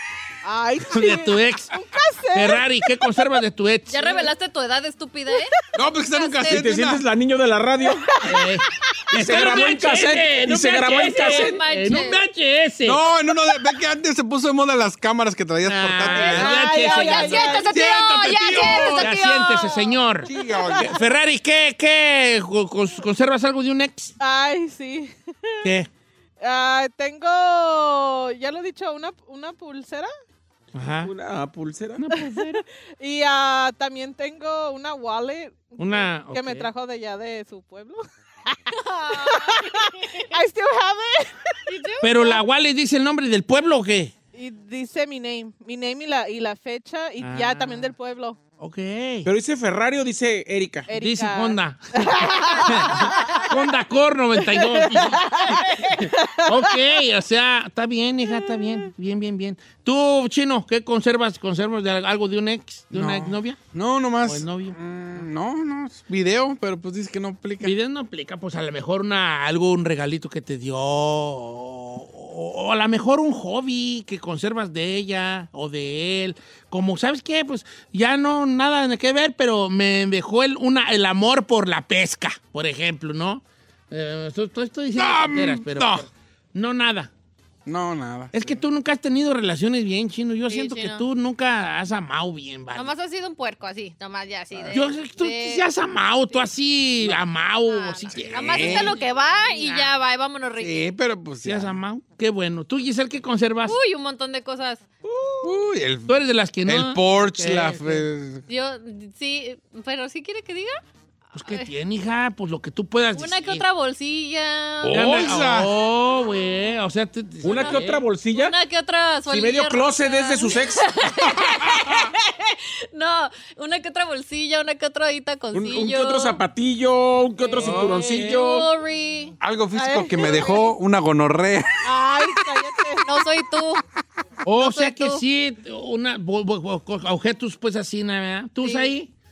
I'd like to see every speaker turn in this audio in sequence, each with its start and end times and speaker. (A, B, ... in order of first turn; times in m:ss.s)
0:00.4-0:03.1 A
0:00.9-0:01.8 B
0:02.3-0:04.0 B
0:03.9-0:06.7 C
0:05.7-0:07.0 D
0:06.5-0:08.2 E
0:08.0-0:08.4 A
0:08.2-0:13.0 B
0:09.1-0:11.6 E
0:10.8-0:12.2 C
0:12.8-0:16.6 D
0:15.6-0:24.1 B
0:16.1-0:20.0 C
0:16.2-0:17.7 A
0:17.7-0:19.1 D
0:20.2-0:20.9 D
0:24.2-0:25.6 A
0:25.6-0:25.9 B
0:26.4-0:30.1 A
0:30.7-0:31.1 B
0:31.0-0:32.0 E
0:32.0-0:32.6 B
0:32.1-0:38.6 A
0:35.8-0:36.7 B
0:38.7-0:40.3 C
0:39.1-0:41.5 A
0:41.7-0:42.4 C
0:42.0-0:44.1 B
0:44.3-0:48.4 A
0:47.2-0:47.9 B
0:48.6-0:49.3 B
0:49.2-0:50.9 E
0:50.9-0:53.5 A
0:50.9-1:03.6 B
0:54.4-0:56.8 A
0:58.4-0:58.6 A
1:02.9-1:07.7 D
1:04.2-1:04.8 B
1:07.6-1:27.1 B
1:24.9-1:26.1 D
1:27.6-1:28.6 D
1:28.3-1:32.9 B
1:30.5-1:31.0 C
1:32.7-1:35.7 C
1:34.7-1:39.0 B
1:37.7-1:40.8 C
1:38.1-1:39.0 D
1:39.6-1:39.9 B
1:40.6-1:41.7 D
1:41.4-1:43.8 B
1:43.6-1:44.8 C
1:45.0-1:45.5 E
1:45.4-1:48.4 D
1:46.1-1:48.0 B
1:48.5-1:50.8 C
1:51.3-1:53.6 B
1:51.4-1:51.7 C
1:53.1-1:55.4 C
1:54.8-1:55.7 D
1:54.9-1:58.0 B
1:57.4-1:58.5 E
1:57.4-2:06.4 C
1:59.3-2:00.9 E
2:01.6-2:02.0 D
2:05.5-2:08.7 E
2:07.5-2:08.3 A
2:07.6-2:09.4 C
2:07.6-2:08.3 B
2:09.4-2:11.9 D
2:09.7-2:10.7 A
2:11.8-2:13.1 A
2:13.0-2:13.8 C
2:14.4-2:19.1 B
2:14.6-2:15.2 C
2:18.6-2:18.9 C